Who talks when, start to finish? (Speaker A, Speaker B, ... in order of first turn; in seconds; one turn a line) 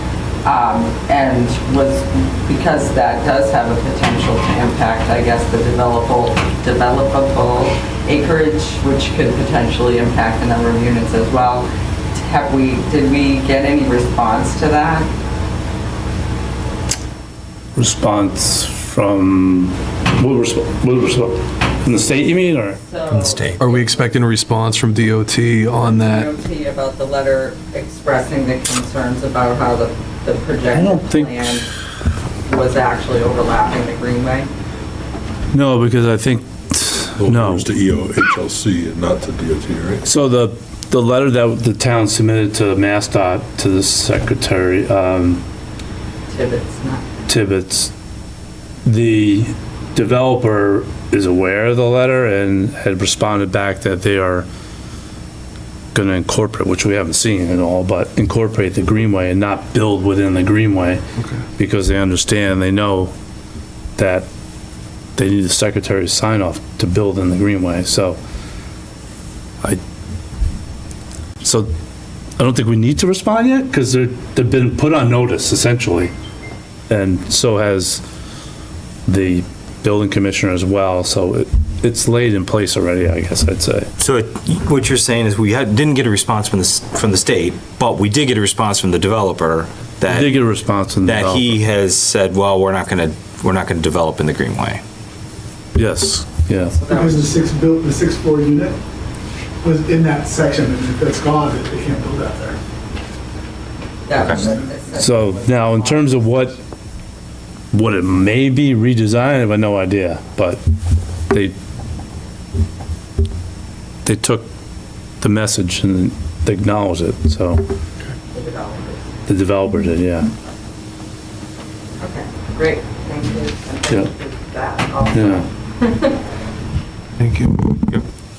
Speaker A: 0.4-15.1
Speaker B: 17.8-22.8
Speaker A: 22.6-24.2
Speaker C: 23.1-23.6
Speaker D: 23.6-26.3
Speaker A: 25.8-31.7
Speaker B: 30.7-31.3
Speaker A: 32.5-34.5
Speaker B: 35.5-37.7
Speaker E: 37.2-40.0
Speaker B: 40.0-45.4
Speaker A: 46.3-47.1
Speaker B: 47.3-47.9
Speaker B: 48.8-54.5
Speaker B: 55.9-61.0
Speaker B: 61.6-63.1
Speaker B: 64.0-64.3
Speaker B: 65.2-68.2
Speaker B: 71.4-71.7
Speaker B: 72.4-76.1
Speaker B: 76.9-78.0
Speaker B: 79.1-83.9
Speaker C: 84.0-90.3
Speaker B: 90.0-91.6
Speaker C: 91.0-94.8
Speaker B: 95.7-96.7
Speaker A: 96.7-97.3
Speaker F: 97.0-98.8
Speaker F: 99.6-102.5
Speaker A: 104.0-106.3
Speaker C: 104.1-104.4
Speaker B: 104.9-106.6
Speaker B: 107.7-110.6
Speaker B: 114.0-114.5
Speaker B: 115.2-117.6
Speaker A: 118.3-119.1
Speaker B: 119.2-120.3
Speaker A: 122.0-126.2
Speaker B: 125.1-125.4
Speaker D: 127.2-127.7